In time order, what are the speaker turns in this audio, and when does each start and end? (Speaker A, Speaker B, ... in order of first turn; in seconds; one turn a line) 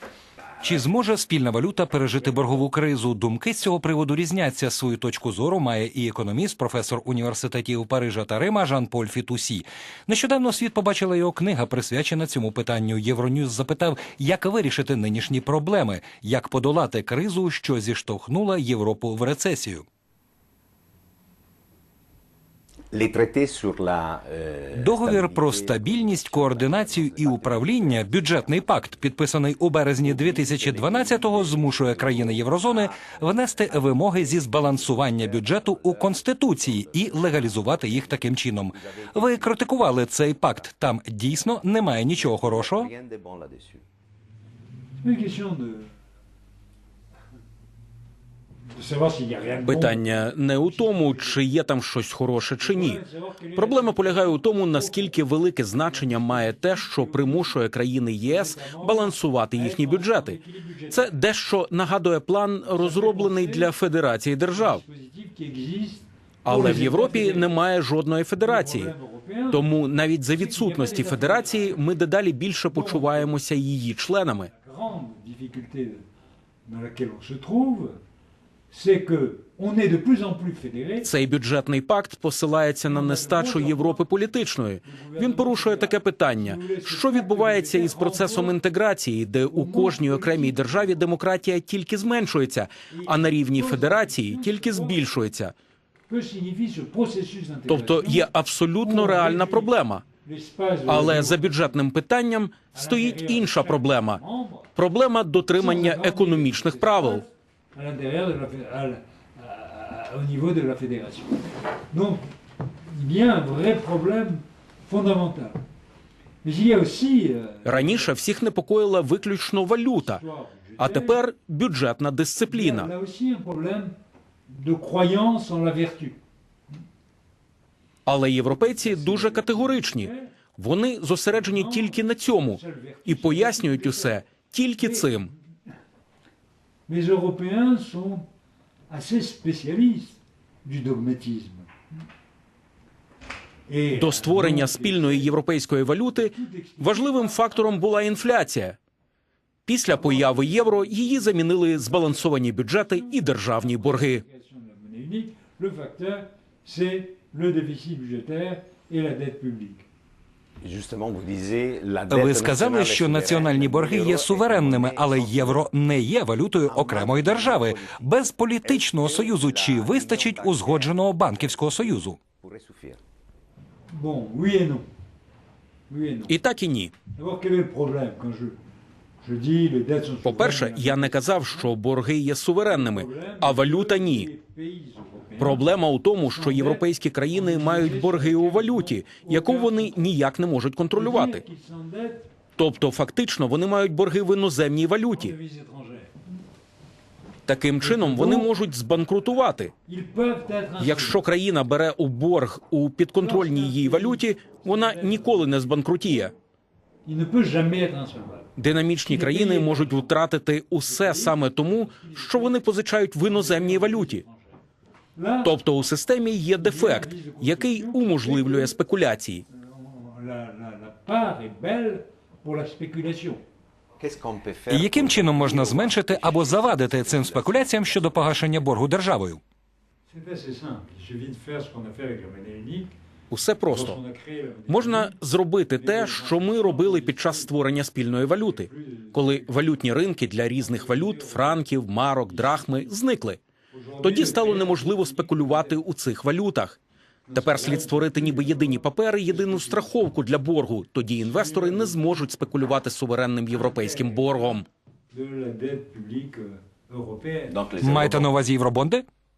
Speaker A: 0.6-19.9
Speaker B: 22.9-29.0
Speaker A: 24.7-42.9
Speaker B: 30.0-40.7
Speaker B: 42.1-43.8
Speaker C: 45.0-45.9
Speaker C: 48.7-51.4
Speaker D: 49.6-53.0
Speaker C: 52.6-55.2
Speaker D: 53.6-60.4
Speaker C: 55.8-57.6
Speaker C: 58.2-61.2
Speaker D: 60.9-64.8
Speaker C: 62.7-63.7
Speaker C: 64.5-67.6
Speaker D: 66.5-68.9
Speaker C: 68.4-69.7
Speaker D: 69.5-74.5
Speaker C: 70.3-71.8
Speaker C: 72.7-73.3
Speaker C: 74.5-76.0
Speaker C: 76.7-78.0
Speaker C: 78.7-81.1
Speaker D: 81.0-95.5
Speaker C: 82.9-84.0
Speaker C: 84.8-88.6
Speaker C: 89.5-91.1
Speaker C: 92.9-95.1
Speaker C: 96.1-101.7
Speaker D: 97.7-100.0
Speaker D: 100.9-104.2
Speaker C: 102.7-104.7
Speaker D: 104.8-107.2
Speaker C: 105.5-112.2
Speaker C: 112.8-115.6
Speaker C: 116.4-118.2
Speaker D: 117.6-120.2
Speaker C: 120.0-121.2
Speaker D: 120.8-122.9
Speaker C: 122.5-124.0
Speaker C: 124.5-126.2
Speaker D: 128.1-135.3
Speaker C: 128.5-130.3
Speaker C: 131.3-134.2
Speaker C: 134.8-135.4
Speaker C: 136.9-138.3
Speaker C: 138.9-141.7
Speaker C: 143.7-145.3
Speaker D: 143.9-148.8
Speaker C: 146.2-147.9
Speaker D: 149.7-154.2
Speaker C: 149.9-159.9
Speaker B: 160.6-165.7
Speaker A: 162.1-172.2
Speaker B: 166.7-173.0
Speaker C: 173.9-174.9
Speaker C: 175.9-176.4
Speaker D: 176.3-176.9
Speaker C: 177.1-178.6
Speaker C: 179.2-181.7
Speaker D: 180.2-184.3
Speaker C: 182.7-190.2
Speaker D: 185.4-191.4
Speaker C: 190.9-192.3
Speaker D: 192.6-195.3
Speaker C: 195.1-196.2
Speaker D: 197.5-199.7
Speaker C: 197.8-198.5
Speaker C: 199.9-201.2
Speaker D: 200.8-206.3
Speaker C: 203.2-205.6
Speaker C: 207.1-208.5
Speaker D: 208.6-214.2
Speaker C: 209.0-210.2
Speaker C: 210.8-214.5
Speaker C: 215.2-215.6
Speaker D: 215.4-219.4
Speaker C: 216.5-218.8
Speaker C: 219.5-223.4
Speaker B: 224.0-228.5
Speaker A: 224.7-229.4
Speaker C: 230.1-232.9
Speaker D: 233.3-234.0
Speaker C: 233.7-235.2
Speaker D: 234.7-243.4
Speaker C: 235.7-237.6
Speaker C: 238.3-239.9
Speaker C: 240.5-242.9
Speaker C: 243.7-245.8
Speaker D: 244.0-246.8
Speaker C: 247.3-249.9
Speaker D: 247.3-254.7
Speaker C: 251.2-252.2
Speaker C: 253.5-257.6
Speaker B: 257.5-258.3
Speaker A: 257.8-259.1